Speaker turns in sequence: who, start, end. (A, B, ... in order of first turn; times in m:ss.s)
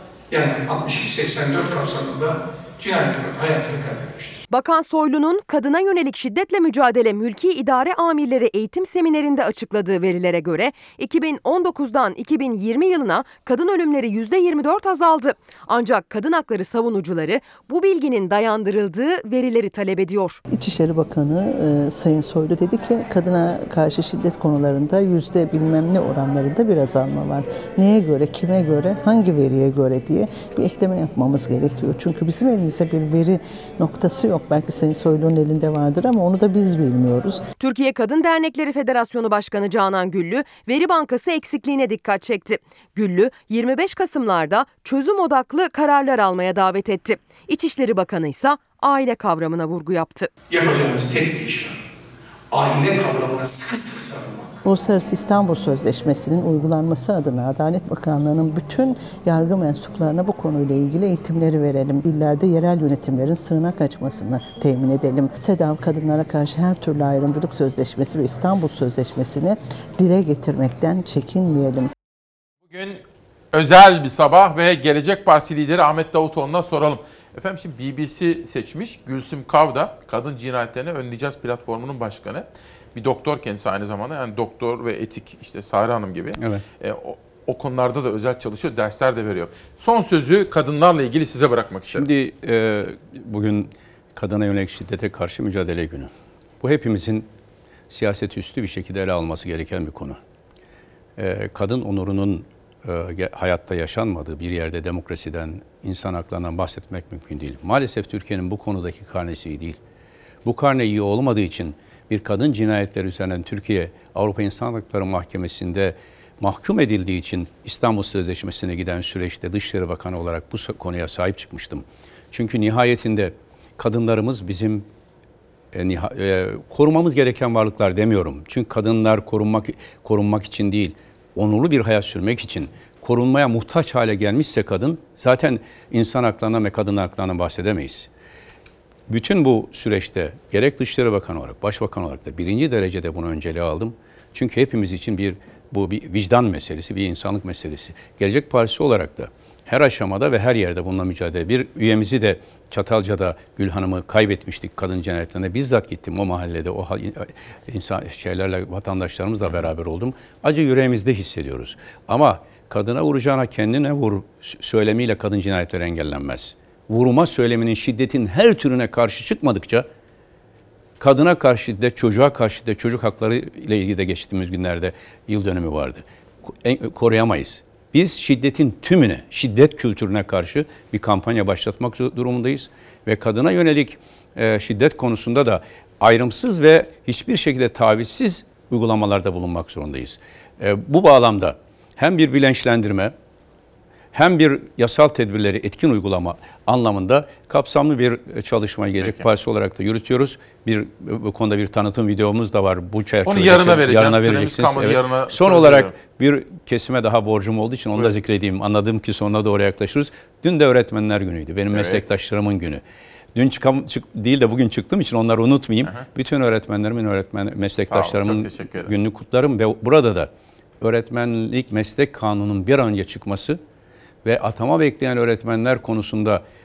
0:00.3-0:04.2 A
0:04.5-0:20.4 B
0:20.5-0:37.4 C
0:37.6-0:50.3 B
0:50.5-0:51.7 A
0:52.5-0:54.2 A
0:54.6-1:11.9 C
1:12.7-1:13.0 D
1:13.5-1:32.1 D
1:26.4-1:26.6 E
1:31.9-1:36.1 E
1:36.6-1:37.3 E
1:37.9-1:40.2 E
1:41.2-1:49.8 E
1:50.4-2:04.9 E
2:05.7-2:18.1 E
2:19.1-2:49.9 E
2:39.5-2:39.7 D
2:51.0-3:13.1 E
3:14.1-3:32.8 E
3:19.0-3:19.3 D
3:23.2-3:26.0 D
3:31.7-3:32.0 D
3:33.4-3:40.3 E
3:37.8-3:38.9 D
3:40.8-3:43.6 E
3:44.2-3:46.4 E